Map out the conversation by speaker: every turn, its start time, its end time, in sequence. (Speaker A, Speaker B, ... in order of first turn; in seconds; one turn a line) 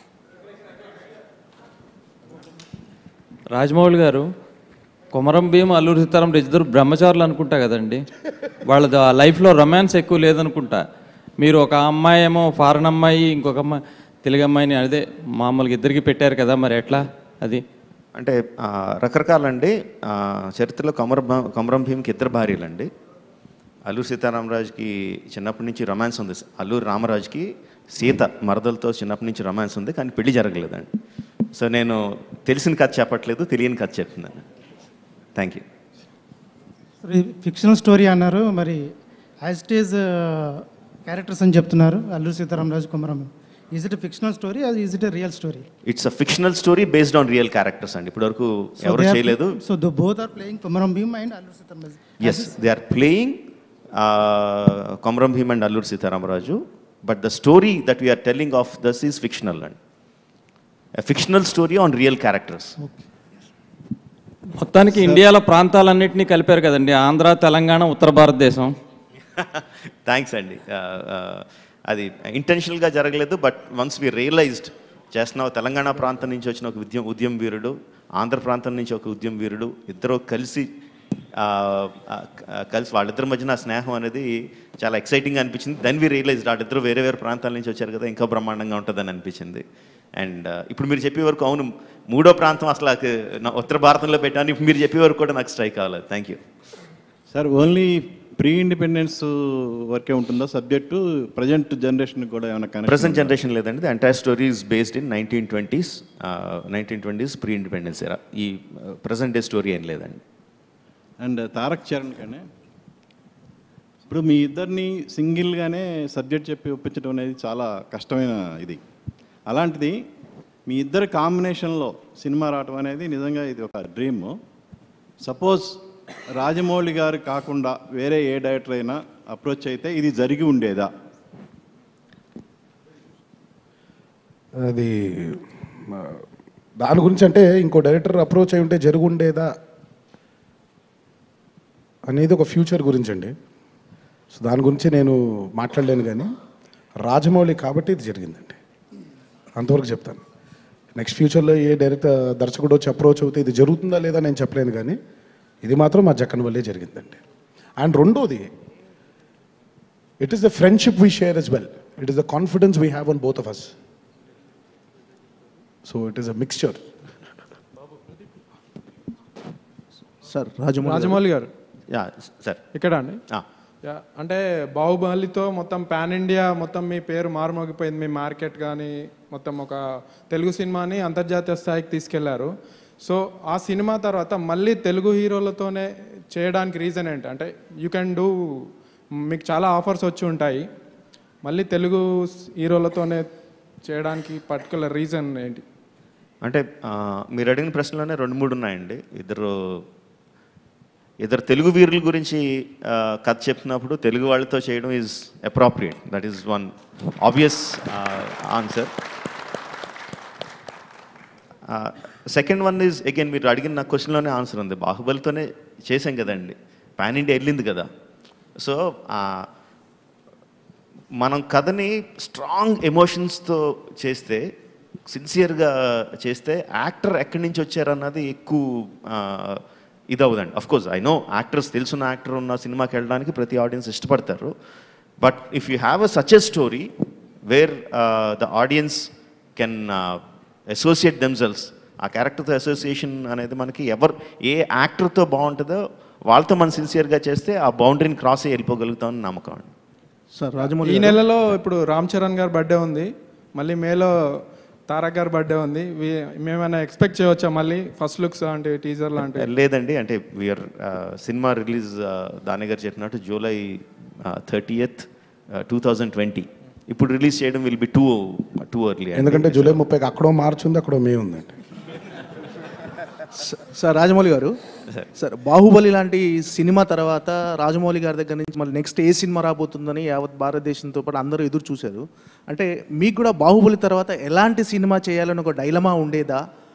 Speaker A: 3.5-4.3
Speaker A: 5.1-8.0
Speaker A: 8.7-10.8
Speaker A: 11.4-17.6
Speaker B: 18.1-22.9
Speaker B: 23.9-30.9
Speaker B: 31.5-34.5
Speaker B: 35.4-35.6
Speaker C: 37.0-38.9
Speaker C: 39.4-40.5
Speaker C: 41.0-45.7
Speaker B: 45.9-49.6
Speaker C: 48.8-52.5
Speaker B: 52.2-59.8
Speaker B: 61.0-62.7
Speaker A: 64.6-68.7
Speaker B: 69.4-80.7
Speaker B: 81.3-89.6
Speaker B: 90.2-96.4
Speaker D: 97.3-103.3
Speaker B: 102.9-110.2
Speaker D: 111.2-112.5
Speaker D: 114.1-118.8
Speaker D: 119.5-120.0
Speaker D: 120.7-124.3
Speaker D: 125.2-125.8
Speaker D: 126.3-130.9
Speaker E: 134.6-136.2
Speaker E: 136.8-139.5
Speaker E: 142.1-143.3
Speaker E: 144.3-146.3
Speaker E: 147.0-148.6
Speaker E: 149.6-150.2
Speaker E: 150.9-155.0
Speaker E: 155.6-157.2
Speaker E: 157.8-158.5
Speaker E: 160.2-163.7
Speaker E: 165.8-166.8
Speaker F: 170.2-171.2
Speaker G: 170.8-171.5
Speaker B: 171.9-172.6
Speaker G: 172.7-173.2
Speaker G: 173.8-188.7
Speaker G: 189.3-190.7
Speaker G: 191.4-193.3
Speaker G: 193.8-195.6
Speaker B: 196.4-199.8
Speaker B: 201.2-208.9
Speaker B: 211.7-217.9
Speaker B: 218.6-219.5
Speaker B: 221.2-224.5
Speaker B: 225.1-234.5
Speaker B: 235.2-236.9
Speaker B: 237.4-249.7
Speaker F: 250.3-251.2
Speaker G: 250.8-254.1
Speaker G: 254.9-259.5
Speaker B: 259.2-269.8
Speaker E: 269.1-271.5
Speaker F: 273.4-274.5
Speaker F: 275.1-286.4